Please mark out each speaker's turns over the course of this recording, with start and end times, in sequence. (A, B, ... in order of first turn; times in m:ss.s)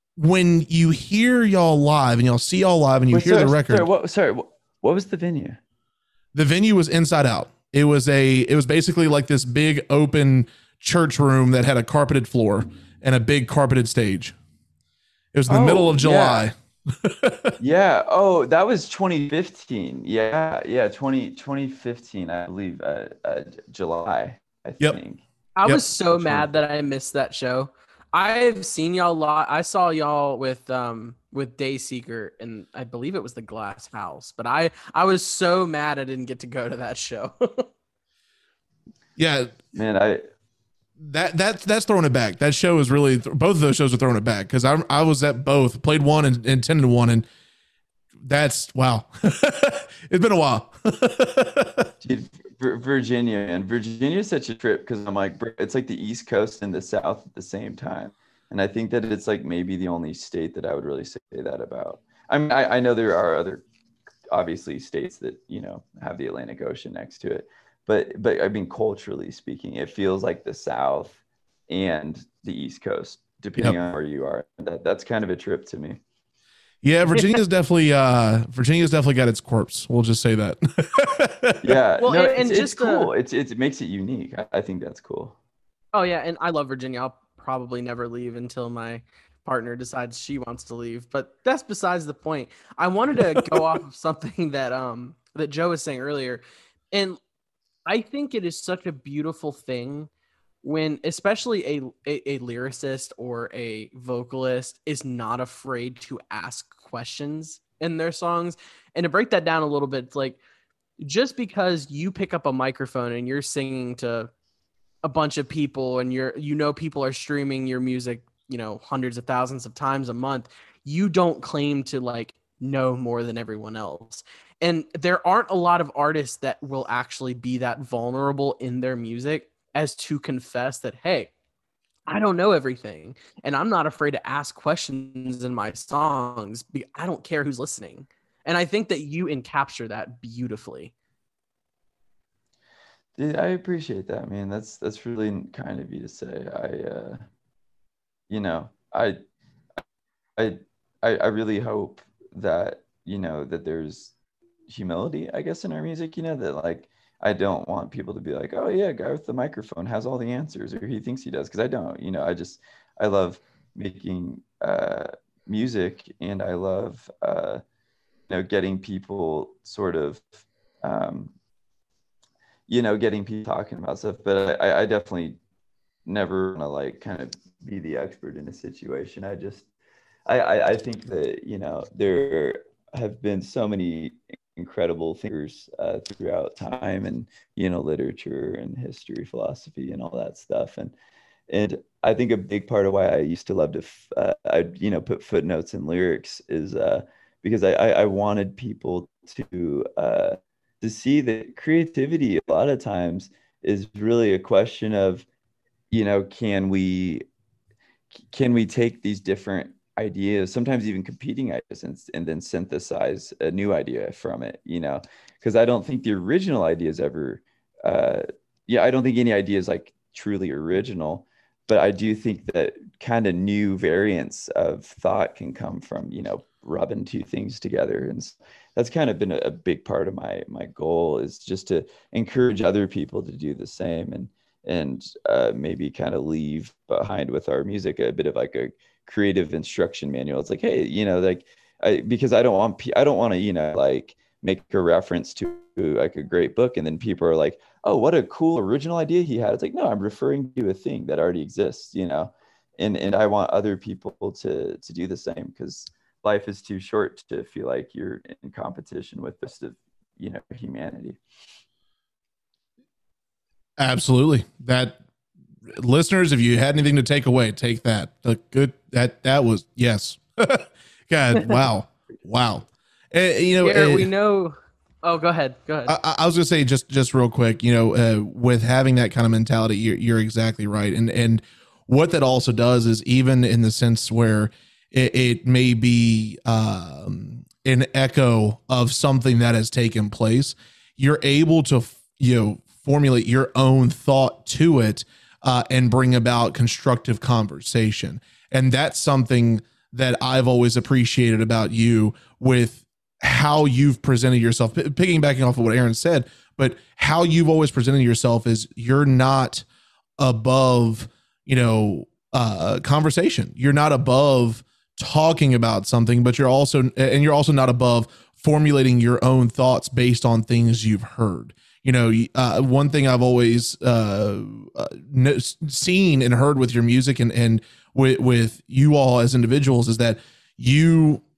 0:00.2-0:03.9 A
0:03.1-0:05.6 B
0:06.3-0:14.4 A
0:15.3-0:17.6 A
0:15.5-0:16.5 B
0:17.6-0:25.2 B
0:25.6-0:37.7 C
0:25.6-0:26.4 A
0:39.2-0:39.6 A
0:39.7-0:40.2 B
0:41.0-0:47.3 A
0:48.2-0:51.9 A
0:52.0-1:03.6 B
1:04.3-1:16.0 B
1:16.8-1:21.7 A
1:21.6-1:25.4 B
1:22.0-1:23.1 C
1:25.9-1:37.2 C
1:33.2-1:33.6 A
1:37.9-1:40.1 C
1:40.6-1:50.4 C
1:51.0-1:54.3 C
1:55.0-2:11.3 C
2:12.1-2:20.9 C
2:23.2-2:27.2 B
2:28.3-2:29.2 B
2:30.4-2:34.1 B
2:34.7-2:47.6 B
2:48.3-2:51.3 B
2:52.7-2:55.4 B
2:56.1-2:59.7 B
3:00.3-3:10.9 B
3:11.5-3:25.3 B
3:25.9-3:27.2 B
3:28.3-4:21.2 B
4:23.8-4:25.0 A
4:25.7-4:34.1 A
4:31.4-4:31.6 C
4:33.6-4:35.9 C
4:35.9-5:09.6 A
5:10.2-5:31.2 A